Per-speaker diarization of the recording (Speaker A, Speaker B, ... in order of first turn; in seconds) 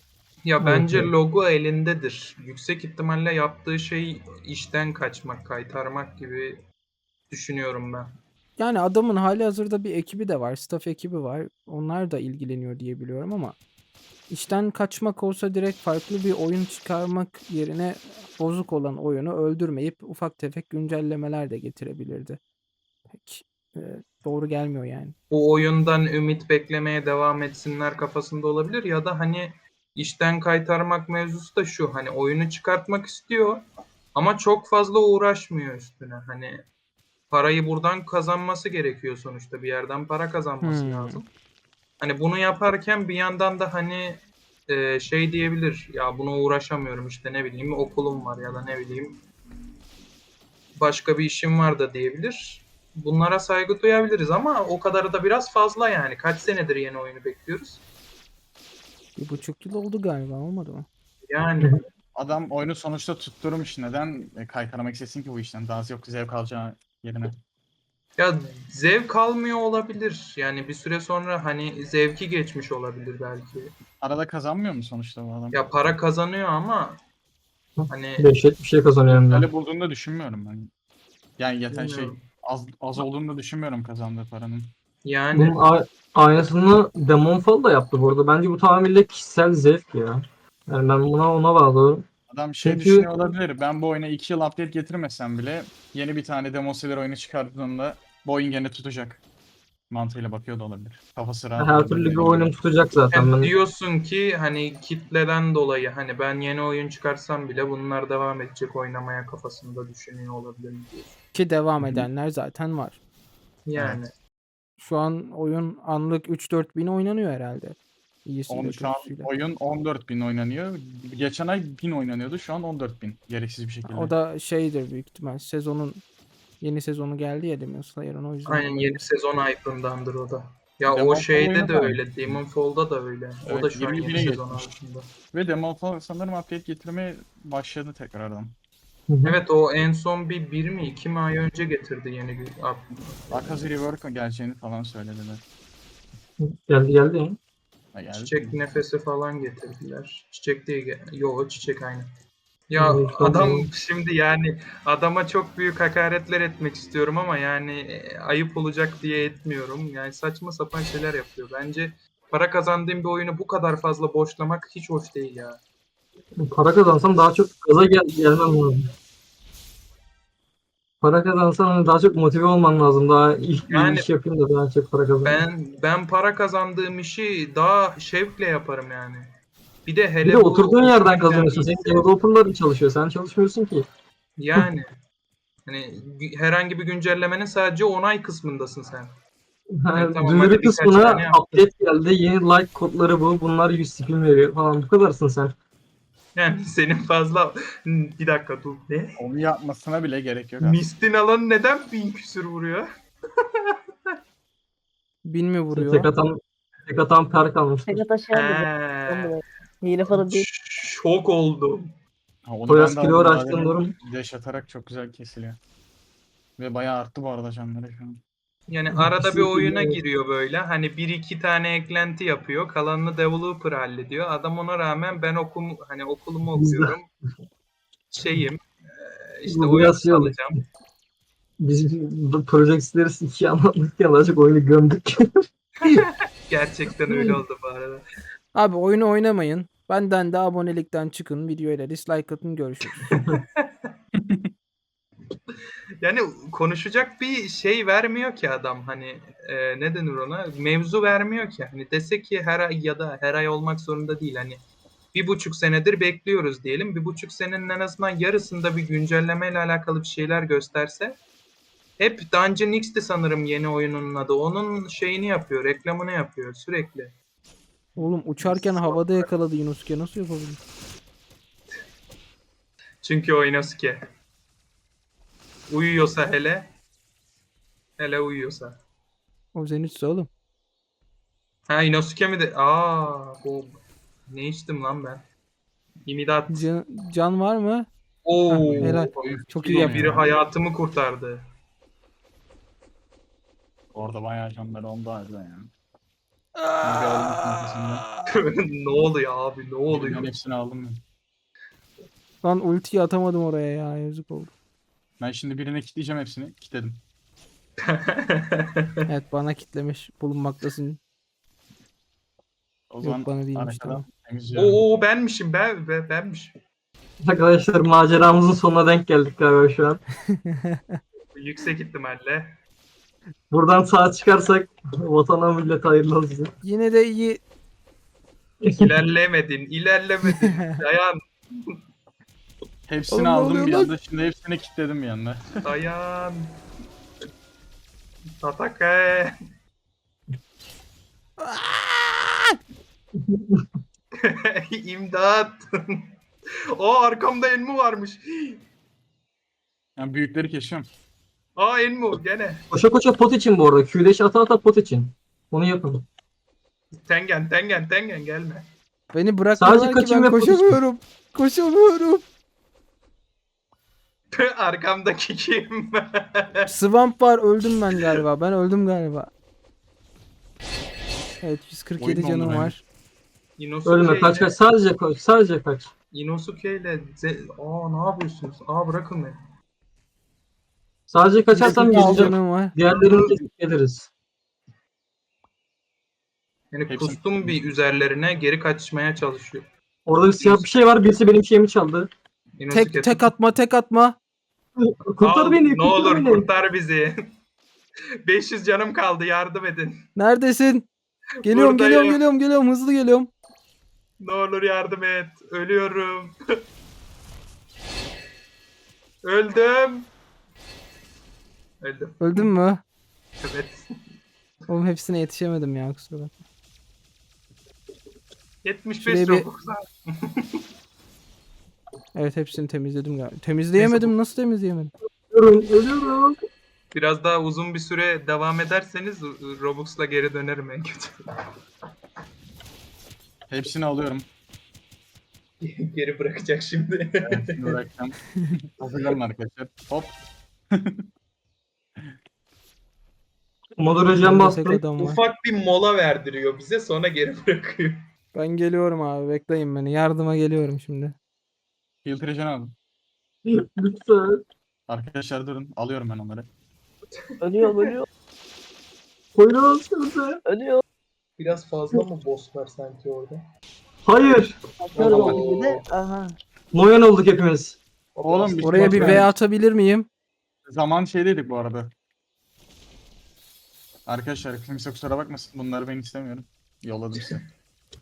Speaker A: 0.4-6.6, 7.3-8.1, 25.3-33.6, 34.1-36.6, 37.3-41.3, 42.0-49.2, 50.8-57.8, 61.3-61.8, 68.2-73.8, 75.5-77.0, 77.9-78.3, 81.7-82.2, 85.0-85.6, 103.1-111.2, 113.7-114.1, 128.4-135.1, 139.2-143.6, 148.1-152.1, 152.7-165.6, 173.7-174.1, 175.2-179.3, 179.8-182.0, 184.4-184.9, 185.7-189.1, 189.9-191.7, 196.3-199.2, 200.6-202.8, 203.4-204.1, 208.3-209.3, 210.1-211.8, 218.7-227.1, 228.1-230.6, 235.8-238.0, 243.0-243.9, 246.0-254.6, 255.1-261.2, 262.0-267.1, 268.4-269.3, 273.0-274.0, 275.7-276.7, 278.0-278.8, 281.7-285.2, 286.1-286.7, 288.2-291.4, 298.3-300.3, 307.8-309.0, 314.5-316.5, 321.3-322.5, 328.8-331.8, 335.6-336.5, 338.4-339.4, 344.2-346.1, 346.8-348.6, 351.6-352.7, 357.1-358.7, 364.3-366.7, 373.6-374.5, 376.1-379.4, 386.7-389.6, 392.6-393.3, 395.2-397.3, 398.2-400.0, 401.4-402.2, 404.2-406.3, 409.2-410.1, 411.8-412.4, 413.4-413.8, 418.6-420.6, 426.9-431.5, 435.6-437.8, 445.0-448.0, 457.6-457.9, 461.4-463.4, 464.9-465.8, 468.1-469.3
Speaker B: 0.6-1.1, 8.6-13.6, 14.3-22.4, 23.1-25.1, 40.6-41.2, 59.1-60.9, 111.3-113.0, 114.8-119.3, 123.8-126.0, 126.6-129.0, 205.2-206.1, 238.5-243.1, 268.0-270.6, 279.5-280.3, 286.5-287.9, 288.8-290.2, 296.6-297.9, 302.4-304.5, 309.1-311.0, 313.0-314.1, 320.3-321.0, 326.6-327.4, 330.4-330.7, 333.1-333.9, 341.4-342.6, 359.1-362.2, 366.7-369.3, 371.4-372.8, 381.5-382.8, 392.7-394.2, 400.1-400.9, 401.4-403.3, 412.2-412.8, 414.7-416.3, 419.0-419.4, 422.1-424.9, 444.2-445.2, 448.3-451.1, 468.6-470.1
Speaker C: 62.1-67.3, 74.0-75.6, 79.1-80.7, 81.4-84.7, 92.3-99.2, 99.9-102.5, 113.7-114.0, 118.5-124.1, 130.9-132.4, 133.4-134.7, 135.3-138.6, 143.3-145.4, 147.9-148.6, 199.2-200.8, 212.4-215.6, 216.6-218.2, 244.1-244.5, 288.5-290.3, 293.9-295.7, 296.8-298.0, 299.9-301.0, 305.2-307.0, 312.9-314.8, 332.9-335.7, 350.0-350.9, 372.0-372.7, 381.9-382.3, 386.9-387.6, 433.5-434.3, 437.2-440.1, 440.7-441.1, 452.0-452.7, 454.9-456.5, 465.0-465.4, 468.2-469.3, 470.6-471.9, 474.1-477.4
Speaker D: 77.8-79.5, 85.3-92.0, 92.6-93.1, 101.6-103.5, 139.1-139.4, 146.4-147.4, 152.8-153.7, 166.4-168.9, 171.0-175.4, 180.2-183.9, 189.8-195.5, 205.7-208.0, 212.7-213.9, 219.0-220.0, 226.5-226.9, 229.5-230.4, 231.6-235.3, 237.1-237.4, 317.2-320.0, 323.5-326.5, 328.6-328.9, 343.2-343.6, 352.7-356.0, 359.6-360.8, 373.9-375.9, 381.1-384.1, 390.1-392.1, 394.8-396.5, 425.3-426.4, 443.8-444.8, 453.4-454.4, 459.3-460.4, 464.0-464.6, 466.7-467.8
Speaker E: 207.9-210.5, 457.4-458.1, 460.4-460.8, 464.8-466.4